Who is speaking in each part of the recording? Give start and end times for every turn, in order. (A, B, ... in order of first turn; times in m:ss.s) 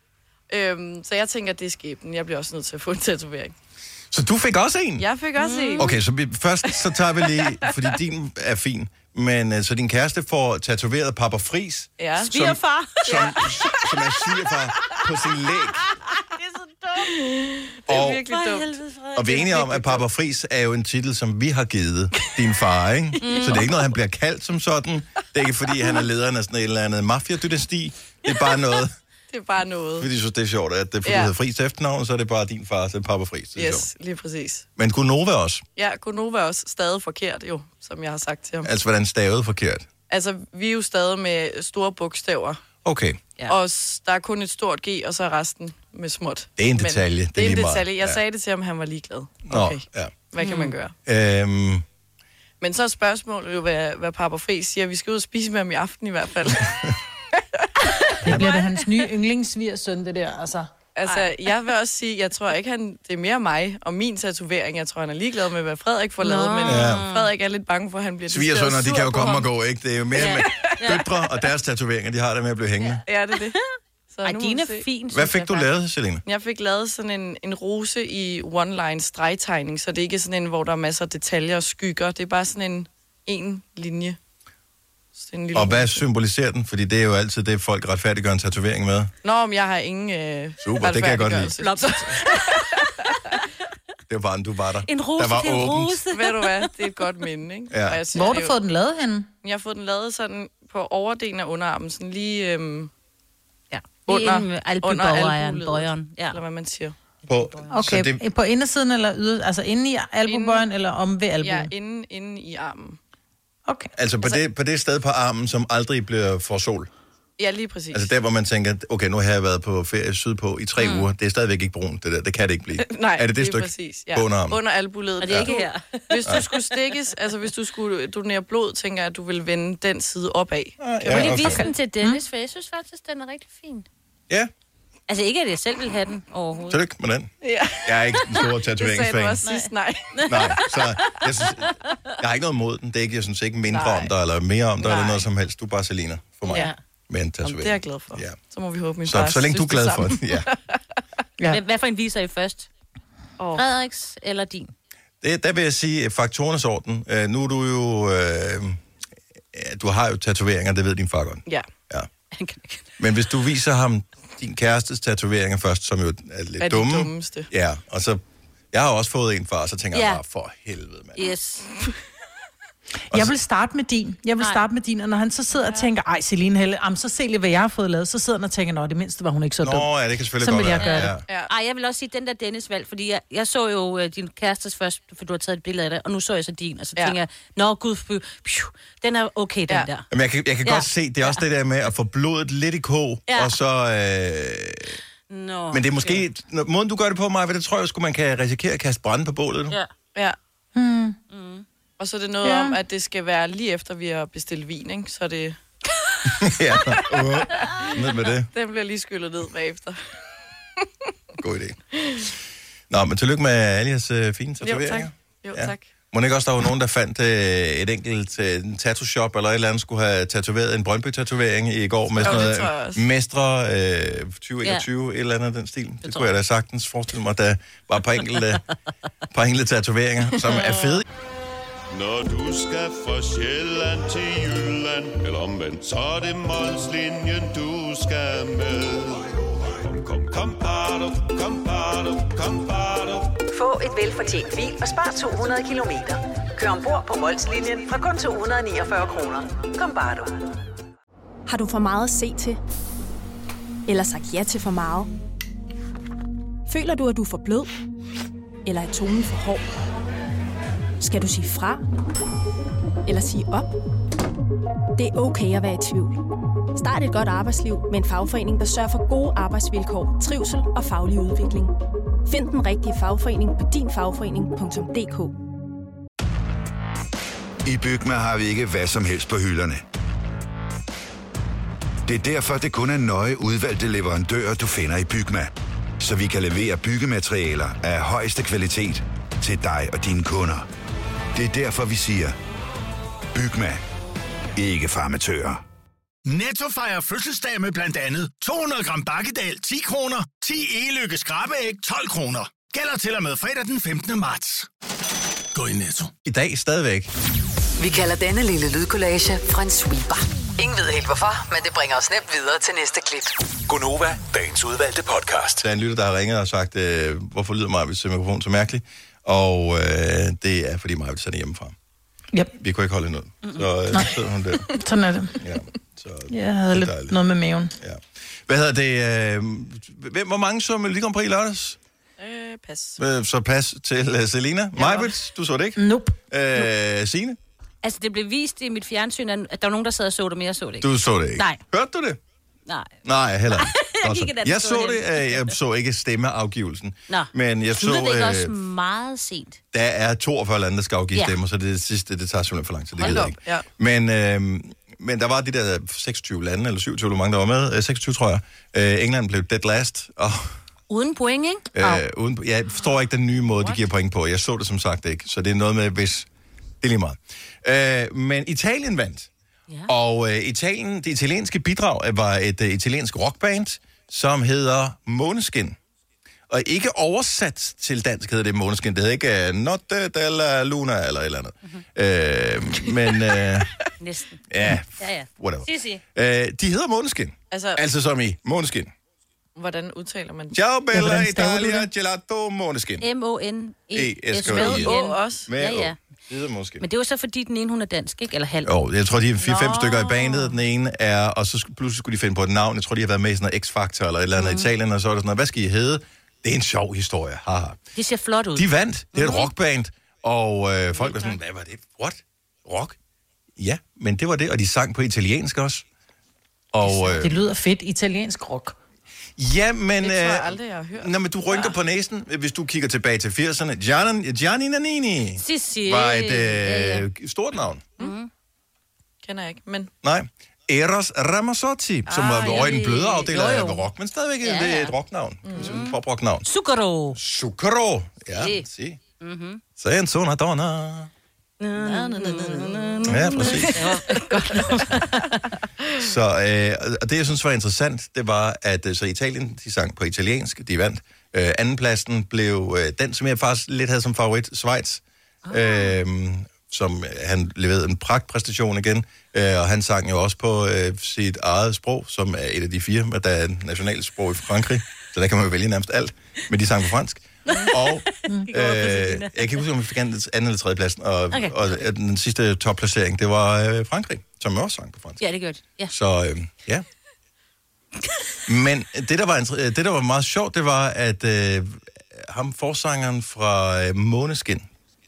0:00.5-0:03.5 A
0:04.1-0:05.1 B
0:05.0-0:05.9 A
0:05.4-0:05.9 C
0:05.8-0:15.8 B
0:06.8-0:07.8 A
0:12.0-0:12.3 A
0:12.3-0:13.4 C
0:13.0-0:13.9 A
0:16.1-0:17.1 C
0:17.0-0:18.8 A
0:17.9-0:18.2 B
0:18.0-0:20.0 C
0:19.2-0:28.9 B
0:23.2-0:23.7 C
0:23.2-0:23.7 A
0:29.3-0:30.1 A
0:30.0-0:33.9 B
0:31.0-0:31.3 A
0:33.6-0:34.7 A
0:34.8-0:35.6 B
0:35.8-0:38.7 A
0:38.6-0:39.9 B
0:40.1-0:42.6 A
0:42.8-0:43.2 B
0:43.5-0:50.9 A
0:46.6-0:48.2 B
0:49.5-0:50.1 B
0:50.4-0:50.7 C
0:51.1-0:51.8 B
0:52.6-0:56.8 A
0:57.6-0:58.6 A
0:58.2-1:00.7 D
1:01.0-1:09.5 A
1:06.2-1:07.3 C
1:06.6-1:07.1 B
1:08.3-1:13.0 B
1:10.2-1:11.1 C
1:10.2-1:11.0 A
1:13.1-1:13.6 A
1:14.1-1:14.8 A
1:14.2-1:15.7 C
1:15.1-1:16.2 B
1:16.3-1:24.2 A
1:25.2-1:26.0 A
1:25.5-1:29.1 B
1:29.2-1:33.2 A
1:30.6-1:31.6 B
1:31.6-1:32.9 C
1:34.1-1:36.0 B
1:34.9-1:36.7 C
1:36.1-1:38.6 A
1:37.7-1:38.0 B
1:38.1-1:39.3 D
1:39.4-1:42.9 A
1:43.7-1:46.4 C
1:44.1-1:47.0 A
1:47.3-1:47.7 C
1:47.3-1:48.2 B
1:47.7-1:51.7 D
1:50.3-1:50.7 A
1:51.4-1:53.0 A
1:54.0-1:56.9 B
1:57.4-1:58.1 A
1:57.9-2:04.6 B
2:00.8-2:01.1 C
2:02.8-2:11.7 A
2:05.2-2:06.7 C
2:05.2-2:05.5 B
2:10.8-2:11.7 B
2:11.1-2:13.9 C
2:15.1-2:16.8 C
2:16.7-2:17.3 B
2:17.4-2:20.6 A
2:17.8-2:19.4 B
2:19.4-2:21.7 C
2:20.2-2:28.4 B
2:23.7-2:24.1 A
2:24.8-2:25.2 A
2:26.5-2:26.7 A
2:26.5-2:26.8 C
2:27.4-2:30.8 A
2:29.0-2:30.5 B
2:31.5-2:32.7 C
2:33.4-2:33.6 A
2:33.6-2:34.7 C
2:35.2-2:38.8 B
2:39.5-2:42.1 B
2:42.4-2:42.8 C
2:43.0-2:48.2 B
2:46.6-2:47.5 A
2:48.7-2:51.2 B
2:49.9-2:50.2 C
2:51.2-2:51.7 C
2:53.1-2:59.9 D
2:59.6-3:01.2 B
3:00.4-3:01.1 D
3:00.8-3:10.0 C
3:10.1-3:15.0 B
3:10.6-3:11.4 C
3:13.3-3:13.6 C
3:15.3-3:16.2 C
3:15.7-3:19.8 B
3:20.8-3:21.2 D
3:21.3-3:21.6 C
3:22.0-3:25.6 A
3:22.4-3:22.8 D
3:26.4-3:28.5 B
3:28.5-3:30.0 A
3:31.4-3:31.8 B
3:32.9-3:48.6 B
3:34.6-3:35.9 A
3:42.2-3:43.0 A
3:46.0-3:46.3 C
3:49.3-3:51.0 B
3:50.5-3:50.9 A
3:51.9-4:03.4 E
4:03.5-4:10.4 F
4:11.5-4:12.6 G
4:13.9-4:15.1 G
4:16.7-4:17.7 G
4:18.6-4:19.7 G
4:21.0-4:21.8 G
4:23.1-4:23.7 G
4:25.0-4:26.2 G
4:26.8-4:31.7 G
4:32.3-4:35.3 G
4:37.6-4:39.8 H
4:42.1-4:50.7 H
4:51.4-4:52.4 H
4:53.3-4:53.8 H
4:54.6-4:55.6 H
4:56.3-5:04.7 I
5:05.6-5:06.1 I
5:06.2-5:07.1 B
5:07.8-5:13.3 F
5:13.7-5:15.6 E
5:15.6-5:21.8 B
5:22.6-5:24.7 B
5:24.7-5:25.4 D
5:25.4-5:27.2 B
5:26.3-5:27.7 D
5:27.8-5:31.8 B
5:32.2-5:33.0 A
5:33.0-5:37.4 B
5:35.8-5:36.2 D
5:37.8-5:41.6 C
5:40.8-5:42.2 B
5:43.0-5:48.5 B
5:43.5-5:45.6 C
5:47.1-5:49.6 C
5:49.7-6:00.6 B
5:53.0-5:53.7 A
6:00.9-6:02.0 C
6:01.8-6:06.3 B
6:06.8-6:09.3 B
6:09.9-6:15.8 B
6:16.5-6:23.7 B
6:24.0-6:24.4 C
6:24.5-6:28.9 B
6:25.0-6:26.0 C
6:27.5-6:27.8 A
6:29.6-6:30.6 A
6:30.5-6:33.1 B
6:30.9-6:31.9 D
6:33.0-6:36.0 C
6:33.9-6:35.0 B
6:34.4-6:35.5 A
6:35.5-6:36.8 B
6:36.8-6:38.7 C
6:38.6-6:47.8 B
6:39.4-6:40.5 A
6:44.4-6:44.7 C
6:48.0-6:49.5 C
6:48.6-6:53.0 B
6:51.0-6:51.4 A
6:53.6-6:55.8 B
6:56.7-6:57.4 B
6:57.0-6:58.8 D
6:59.4-7:07.8 B
7:00.0-7:01.7 A
7:05.4-7:07.1 C
7:08.0-7:08.3 C
7:09.2-7:09.9 A
7:10.0-7:16.5 B
7:12.1-7:12.7 A
7:12.4-7:13.8 C
7:14.4-7:14.9 C
7:15.5-7:15.7 A
7:15.6-7:17.2 C
7:17.2-7:19.0 B
7:18.4-7:18.7 C
7:19.2-7:19.6 C
7:19.8-7:21.1 B
7:21.6-7:25.5 C
7:21.8-7:24.7 A
7:23.1-7:23.8 B
7:26.0-7:55.2 B
7:35.5-7:36.0 C
7:47.5-7:47.9 C
7:48.5-7:49.6 C
7:51.3-7:51.8 C
7:55.2-7:55.9 C
7:55.9-7:56.8 B
7:58.5-8:04.7 B